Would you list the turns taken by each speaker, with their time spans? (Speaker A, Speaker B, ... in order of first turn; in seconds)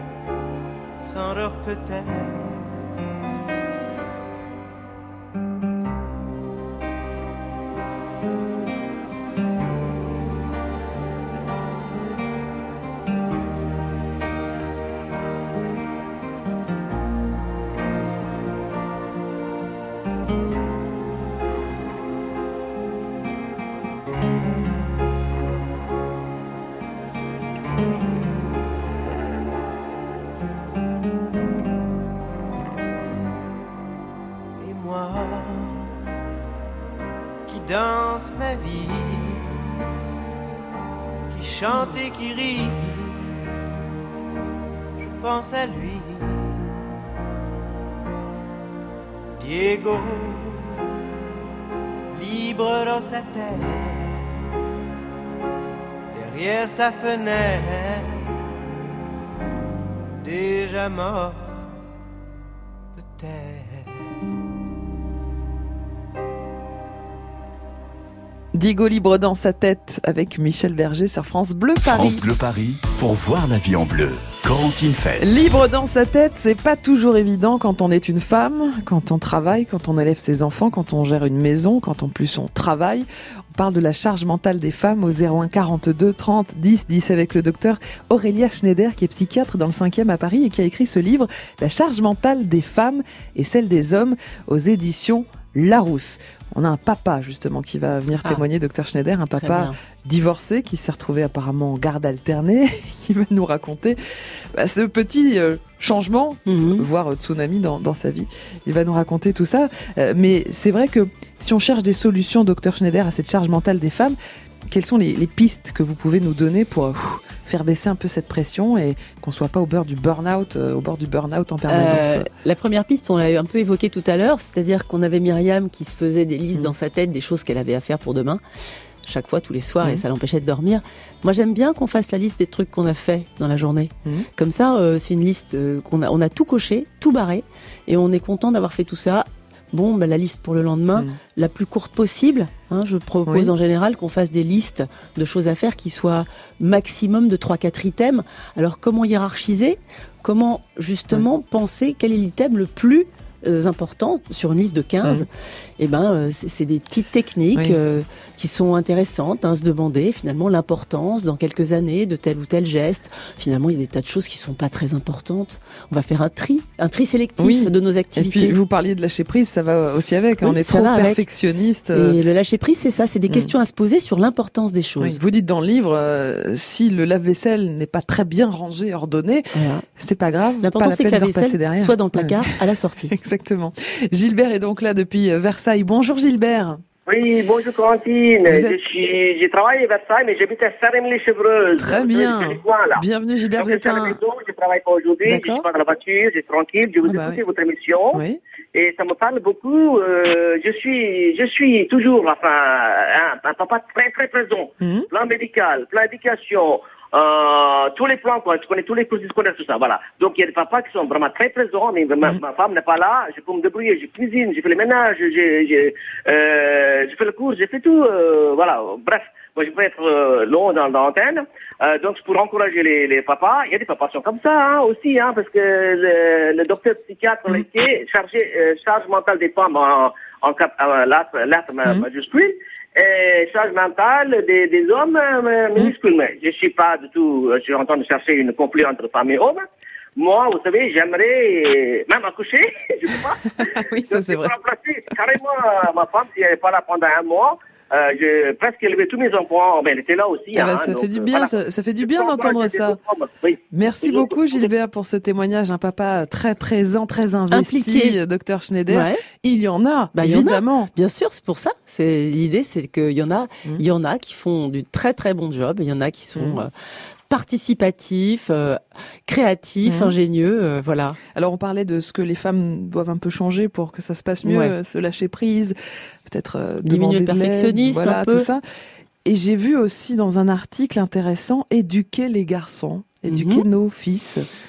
Speaker A: 1.0-2.8, 34.6-36.0, 37.5-39.6, 41.3-43.4, 45.0-46.9, 49.4-51.0, 52.1-54.3, 56.1-58.3, 60.2-61.8, 63.0-63.9
Speaker B: 68.5-72.2, 75.2-104.0, 104.5-114.2, 114.7-122.3, 143.3-143.5, 167.4-172.2, 175.0-182.5, 183.1-186.8, 188.5-188.8, 191.8-194.2, 195.2-195.7, 197.1-197.4, 198.1-198.4, 204.8-205.1, 243.6-244.6, 250.5-253.0, 253.7-260.9, 266.4-266.6, 269.9-270.1, 271.4-278.6, 279.2-284.5
Speaker C: 71.8-75.5
Speaker D: 99.4-99.8, 106.5-106.9, 121.7-128.4, 129.1-155.3, 155.8-168.6, 170.4-171.2, 171.9-175.2, 179.5-179.8, 180.6-183.1, 257.5-258.2, 258.9-259.2, 260.1-266.7, 267.3-271.2, 274.4-274.7, 276.8-278.5, 283.3-283.6
Speaker E: 187.1-193.0, 193.6-239.6, 240.2-254.7